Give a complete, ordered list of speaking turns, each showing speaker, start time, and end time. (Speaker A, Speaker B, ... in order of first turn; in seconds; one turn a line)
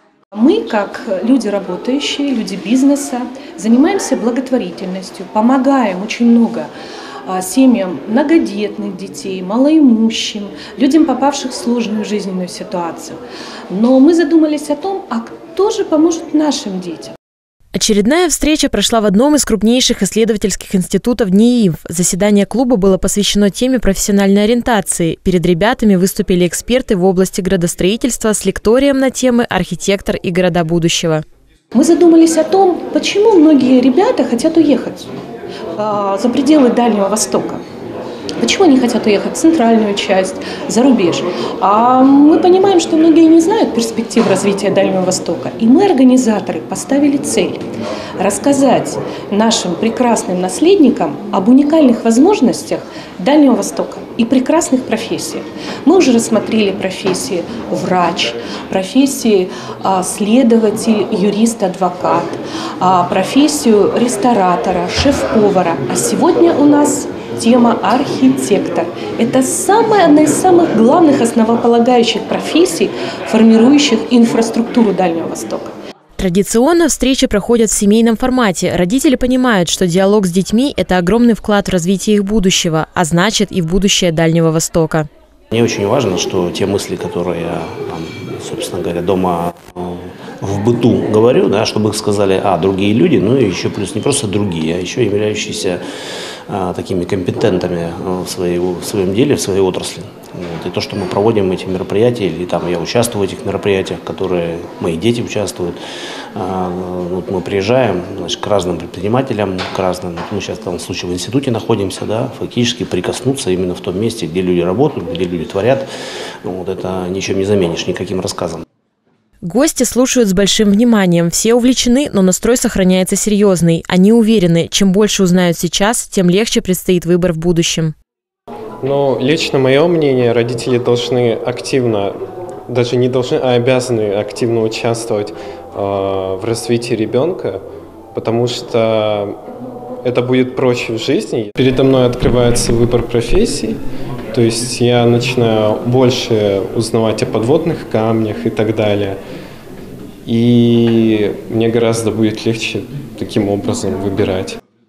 Speaker A: 0.3-6.7
Speaker A: 7.2-13.2
Speaker A: 13.7-17.1
Speaker B: 17.7-31.2
Speaker A: 31.7-35.1
Speaker A: 35.8-37.6
Speaker A: 38.4-47.6
Speaker A: 48.2-75.7
Speaker B: 76.2-85.1
Speaker C: 85.5-95.8
Speaker C: 96.5-105.8
Speaker C: 106.3-115.9
Speaker C: 116.4-118.6
Speaker B: 119.4-127.9
Speaker D: 128.8-137.6
Speaker D: 138.1-139.4
Speaker D: 140.0-143.8
Speaker D: 144.3-149.2
Speaker D: 150.2-154.6